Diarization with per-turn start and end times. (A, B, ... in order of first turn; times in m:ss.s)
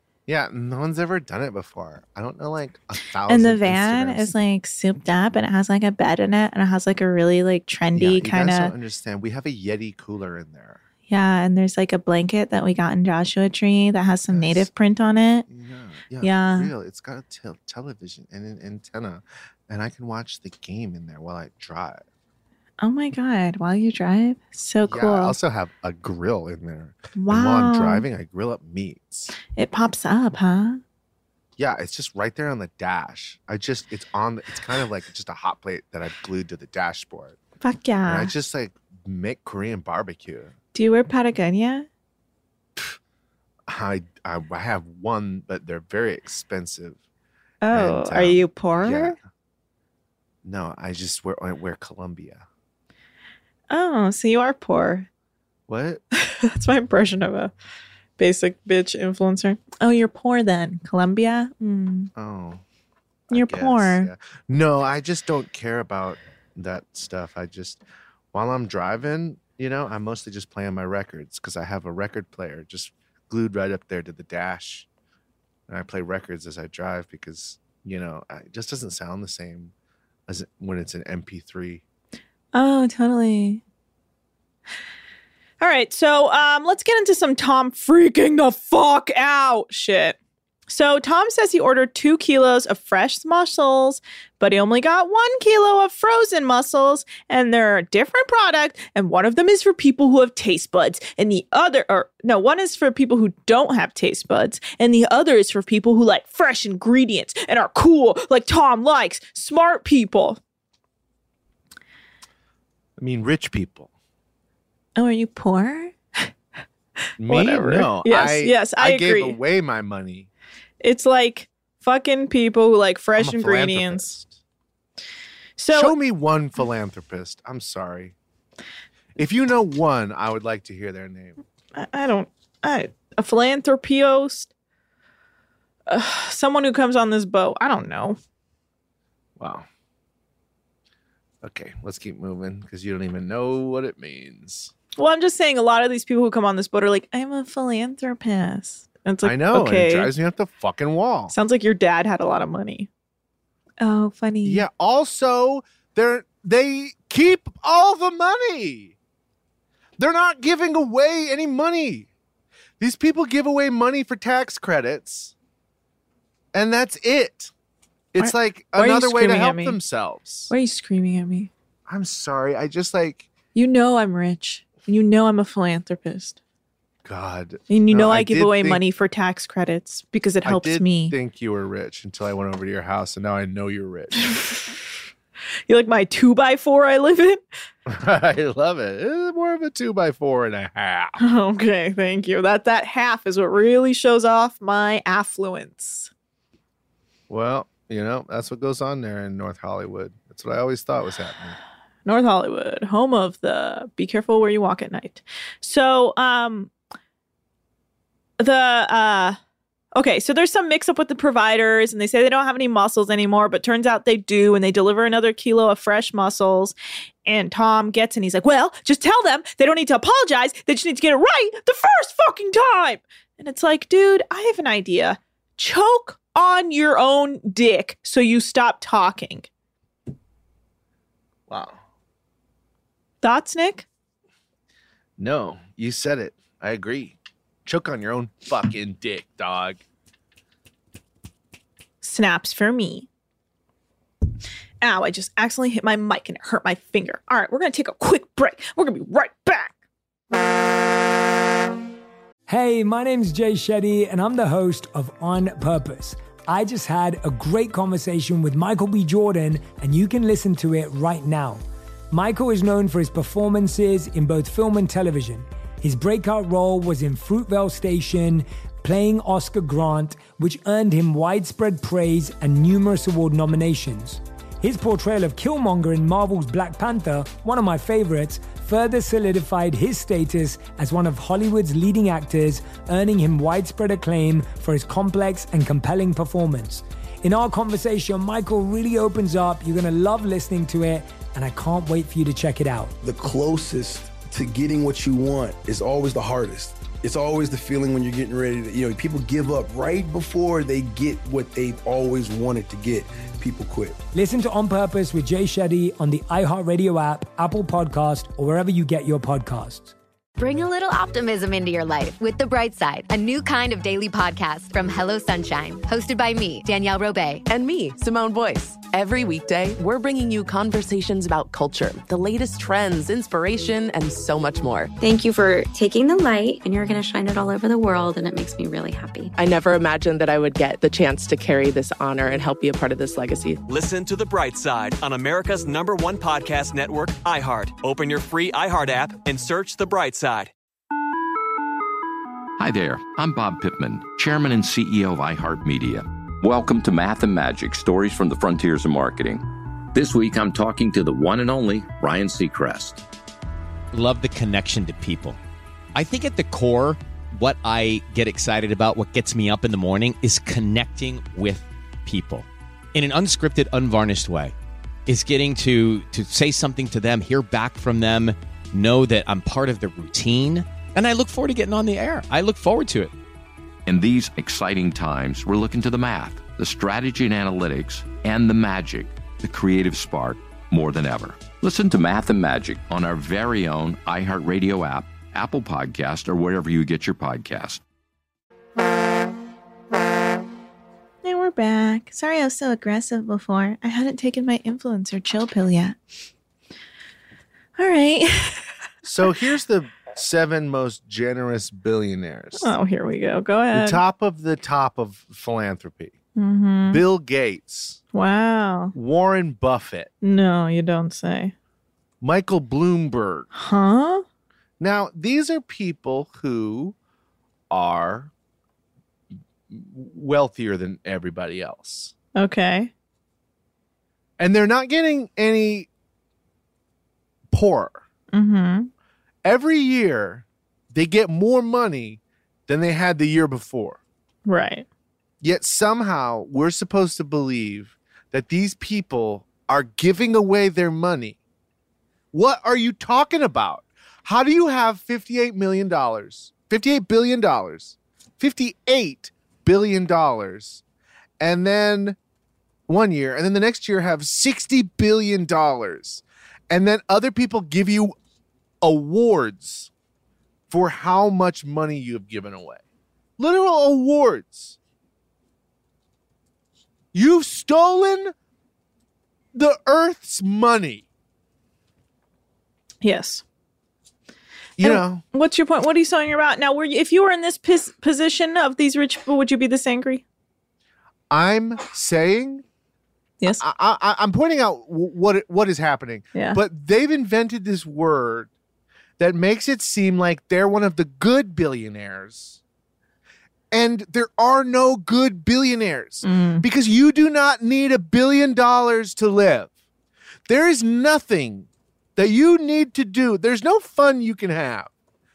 0:00.3-0:04.3 A
0:03.3-0:08.7 B
0:08.0-0:10.8 A
0:11.1-0:15.4 B
0:14.3-0:14.7 A
0:15.5-0:22.0 A
0:16.2-0:16.7 B
0:22.8-0:25.4 B
0:24.9-0:29.3 A
0:27.2-0:28.1 B
0:29.6-0:30.8 B
0:31.6-0:37.4 A
0:37.6-0:38.3 B
0:38.1-0:40.5 A
0:40.7-0:41.9 B
0:43.7-0:47.0 A
0:47.6-0:49.2 B
0:47.7-0:49.2 A
0:50.4-0:52.4 A
0:53.7-0:55.1 B
0:55.7-0:56.0 A
0:56.2-0:57.5 B
0:58.2-1:02.1 B
1:02.2-1:02.6 A
1:03.3-1:07.8 A
1:03.3-1:04.1 B
1:08.3-1:14.9 A
1:15.7-1:19.7 A
1:20.3-1:21.8 A
1:22.5-1:23.6 B
1:25.6-1:30.2 B
1:30.7-1:50.4 B
1:53.0-1:53.9 A
1:55.0-1:56.3 B
1:57.2-2:00.3 A
1:57.3-1:59.4 B
2:00.8-2:04.2 B
2:03.2-2:04.4 A
2:05.6-2:05.9 B
2:05.7-2:08.1 A
2:09.2-2:11.4 A
2:11.8-2:14.5 B
2:15.9-2:18.2 B
2:19.4-2:19.7 A
2:21.4-2:24.7 A
2:25.0-2:30.1 B
2:29.2-2:31.3 A
2:31.3-2:32.9 B
2:33.8-2:34.6 B
2:34.4-2:39.0 A
2:40.0-2:42.1 A
2:42.8-2:45.3 A
2:46.5-2:47.5 A
2:48.1-2:50.5 A
2:48.2-2:49.8 B
2:50.5-2:51.5 B
2:51.9-2:53.3 A
2:53.6-2:56.4 B
2:57.0-2:58.8 A
2:57.7-3:01.2 B
3:00.4-3:04.3 A
3:04.2-3:04.7 B
3:05.7-3:07.4 B
3:07.9-3:11.2 A
3:11.2-3:16.1 B
3:17.3-3:21.6 A
3:22.0-3:26.7 B
3:28.4-3:29.4 B
3:30.0-3:36.8 B
3:37.3-3:49.5 B
3:51.5-3:51.8 A
3:53.2-3:53.9 B
3:55.2-3:59.8 A
4:02.0-4:03.1 B
4:04.8-4:09.7 B
4:12.5-4:53.0 C
4:53.0-5:04.0 D
5:04.1-5:09.9 C
5:10.4-5:17.4 E
5:17.5-5:24.9 F
5:25.0-5:29.3 G
5:29.4-5:33.6 F
5:33.7-5:40.5 H
5:42.6-5:53.0 I
5:53.9-5:55.4 J
5:56.0-6:04.6 J
6:05.1-6:13.1 J
6:13.9-6:27.8 I
6:31.2-6:36.0 B
6:37.8-6:38.7 B
6:39.0-6:42.7 A
6:42.6-6:44.0 B
6:43.7-6:46.2 A
6:46.4-6:47.0 B
6:46.9-6:48.0 A
6:48.1-6:49.0 B
6:49.0-6:50.1 A
6:50.2-6:51.5 B
6:52.2-6:53.5 A
6:53.5-6:54.2 B
6:54.8-6:57.0 A
6:57.7-6:58.3 A
6:59.7-7:02.1 A
7:02.4-7:02.9 B
7:04.4-7:05.9 A
7:07.5-7:08.0 A
7:08.3-7:08.9 B
7:09.4-7:14.0 A
7:14.5-7:14.9 B
7:15.4-7:21.4 A
7:22.3-7:30.8 A
7:31.4-7:32.2 A
7:32.9-7:38.1 A
7:38.8-7:39.9 A
7:40.7-7:42.8 A
7:43.4-7:44.8 A
7:47.1-7:48.3 A
7:49.5-7:51.0 A
7:53.0-7:53.4 B
7:54.8-7:55.2 A
7:54.8-8:00.2 B
8:01.3-8:02.6 A
8:03.5-8:08.5 A
8:09.2-8:12.6 A
8:13.7-8:19.7 A
8:16.2-8:16.6 B
8:20.5-8:24.9 A